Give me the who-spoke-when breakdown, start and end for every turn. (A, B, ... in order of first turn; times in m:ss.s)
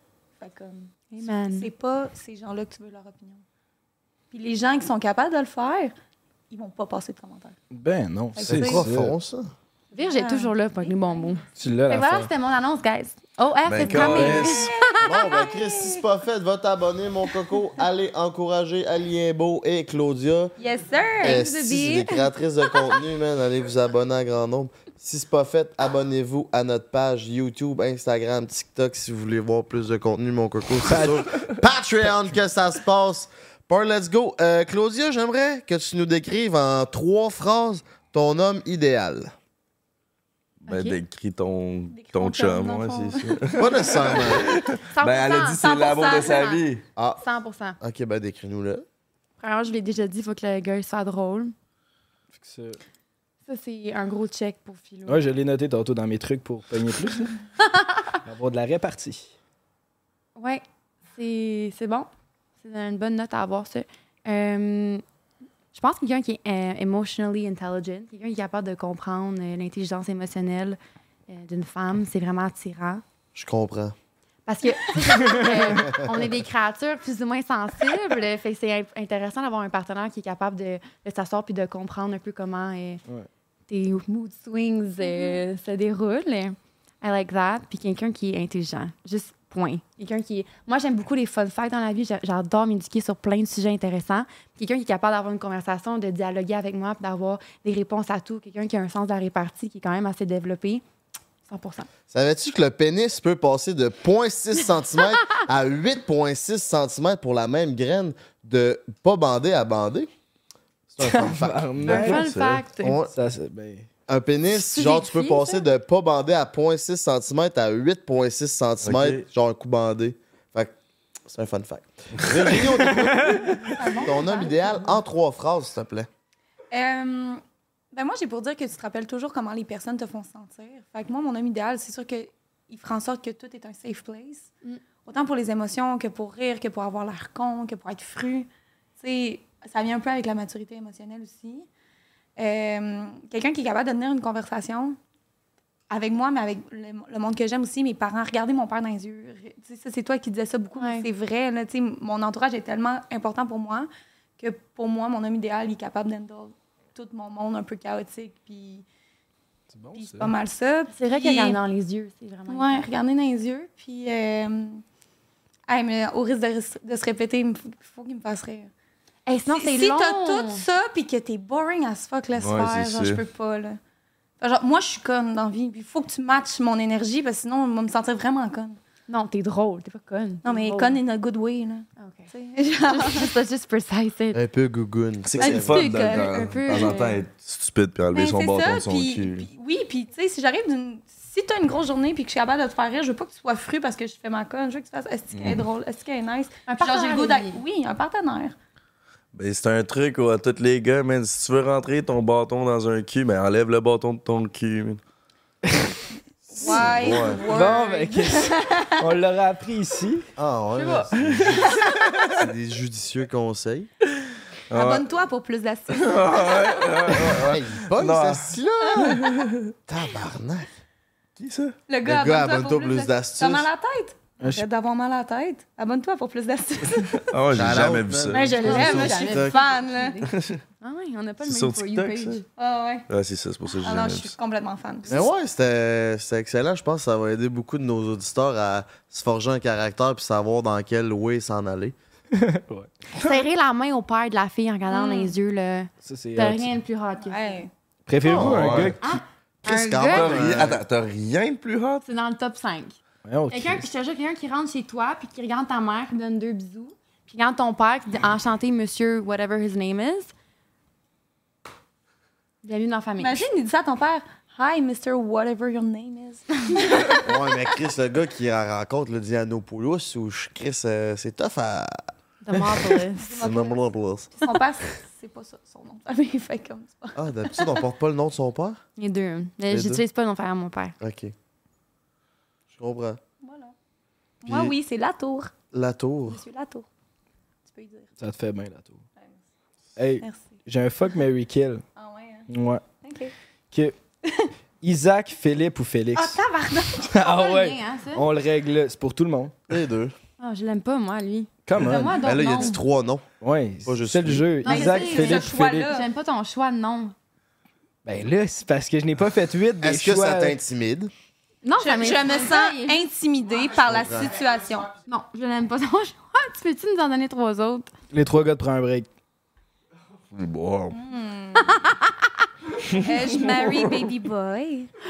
0:00.4-0:03.4 A
0:01.2-0:01.7 B
0:04.3-0:05.9 A
0:06.5-0:07.6 A
0:07.7-0:09.1 C
0:08.3-0:08.9 A
0:08.4-0:09.5 D
0:09.9-0:15.1 B
0:10.0-0:11.4 A
0:11.6-0:12.3 C
0:13.6-0:14.7 E
0:13.9-0:14.5 C
0:14.7-0:16.0 A
0:15.0-0:20.5 D
0:20.6-0:22.2 A
0:21.2-0:39.3 D
0:30.9-0:31.2 C
0:40.7-0:41.0 B
0:40.7-0:46.8 E
0:41.9-0:44.0 A
0:43.5-0:44.4 D
0:44.9-0:46.6 B
0:45.8-0:46.4 A
0:47.0-0:47.2 D
0:47.2-0:47.8 B
0:47.8-0:48.8 D
0:49.4-0:51.5 B
0:52.4-0:52.8 C
0:53.4-0:55.2 B
0:55.1-0:57.3 C
0:58.2-0:59.3 C
1:00.4-1:00.6 B
1:01.1-1:02.1 B
1:02.6-1:05.0 B
1:05.7-1:13.0 B
1:13.3-1:13.9 D
1:14.4-1:23.0 B
1:23.7-1:40.8 B
1:25.1-1:25.4 A
1:41.5-1:41.9 B
1:42.1-1:50.1 D
1:50.9-1:52.0 D
1:51.0-1:52.2 C
1:51.8-1:52.6 E
1:51.9-1:53.0 B
1:52.8-1:53.1 D
1:53.1-1:53.9 C
1:54.1-2:00.7 D
1:54.5-1:55.6 B
1:58.8-1:59.2 E
2:01.3-2:06.1 D
2:03.1-2:03.6 C
2:03.7-2:04.7 A
2:06.7-2:07.4 A
2:07.9-2:14.5 A
2:15.0-2:21.7 A
2:22.4-2:25.0 A
2:25.9-2:38.9 A
2:30.8-2:31.1 B
2:39.7-2:40.3 C
2:39.9-2:41.6 A
2:40.9-2:42.9 B
2:42.5-2:44.8 A
2:45.7-2:48.7 A
2:49.2-2:50.6 B
2:49.5-2:53.8 A
2:52.4-2:53.2 E
2:54.4-2:58.8 A
2:59.1-3:01.0 B
3:00.4-3:03.3 A
3:02.0-3:02.3 B
3:02.9-3:04.4 B
3:04.3-3:05.8 D
3:05.2-3:09.5 E
3:05.4-3:06.9 A
3:05.8-3:07.2 B
3:08.1-3:18.5 A
3:15.3-3:15.6 E
3:16.7-3:17.6 B
3:19.3-3:25.0 E
3:25.7-3:25.9 C
3:26.5-3:29.0 A
3:26.6-3:27.4 D
3:26.6-3:27.4 E
3:27.5-3:30.2 C
3:30.4-3:31.7 D
3:30.8-3:31.1 B
3:32.3-3:33.9 D
3:34.7-3:37.4 A
3:34.7-3:35.0 E
3:35.9-3:38.5 E
3:37.4-3:39.3 D
3:39.1-3:39.7 E
3:39.9-3:40.7 D
3:41.4-3:41.8 E
3:41.9-3:47.4 A
3:42.0-3:43.7 D
3:47.3-3:48.6 E
3:47.5-3:49.6 D
3:48.3-3:50.2 B
3:48.3-3:50.3 A
3:50.3-3:50.6 E
3:50.8-3:52.4 B
3:51.4-3:52.4 E
3:52.6-3:53.1 A
3:53.1-3:54.3 E
3:53.7-3:55.2 A
3:55.1-4:01.9 D
4:02.3-4:02.9 C
4:03.1-4:07.6 B
4:04.9-4:05.3 A
4:06.0-4:06.7 C
4:07.2-4:07.7 A
4:08.1-4:09.2 C
4:08.3-4:08.9 D
4:08.3-4:09.0 E
4:09.0-4:10.6 B
4:09.6-4:10.8 D
4:10.0-4:12.0 E
4:12.0-4:12.9 B
4:13.2-4:13.9 C
4:13.5-4:20.3 B
4:22.6-4:23.4 B
4:23.2-4:27.2 A
4:27.2-4:32.0 D
4:32.4-4:33.6 B
4:33.2-4:33.7 A
4:33.4-4:34.3 D
4:34.3-4:37.8 A
4:37.2-4:38.8 D
4:39.0-4:40.9 B
4:39.7-4:40.0 D
4:41.0-4:41.3 D
4:42.7-4:43.2 D
4:43.4-4:43.7 A
4:44.4-4:45.5 A
4:44.4-4:44.7 D
4:45.7-4:46.4 D
4:46.3-4:46.9 A
4:47.6-4:48.1 A
4:48.2-4:49.0 C
4:49.2-4:49.4 A
4:50.0-4:51.8 C
4:50.2-4:50.6 A
4:52.0-4:52.5 A
4:52.5-4:52.8 C
4:53.0-4:53.3 A
4:53.7-4:54.0 C
4:54.2-4:54.5 A
4:54.8-4:56.4 C
4:56.1-4:57.1 A
4:57.1-4:59.5 C
4:57.2-4:58.2 B
4:59.7-5:00.1 D
5:00.4-5:02.8 B
5:01.6-5:02.2 C
5:01.8-5:03.2 D
5:02.4-5:02.8 A
5:03.4-5:05.9 C
5:03.9-5:04.5 D
5:04.6-5:07.1 B
5:04.6-5:06.1 A
5:08.0-5:10.6 C
5:09.8-5:11.1 D
5:11.6-5:13.0 B
5:11.8-5:14.9 A
5:13.8-5:14.3 D
5:15.0-5:17.9 B
5:18.1-5:19.1 C
5:20.3-5:20.9 E
5:20.9-5:21.8 A
5:21.6-5:21.8 B
5:23.0-5:24.9 A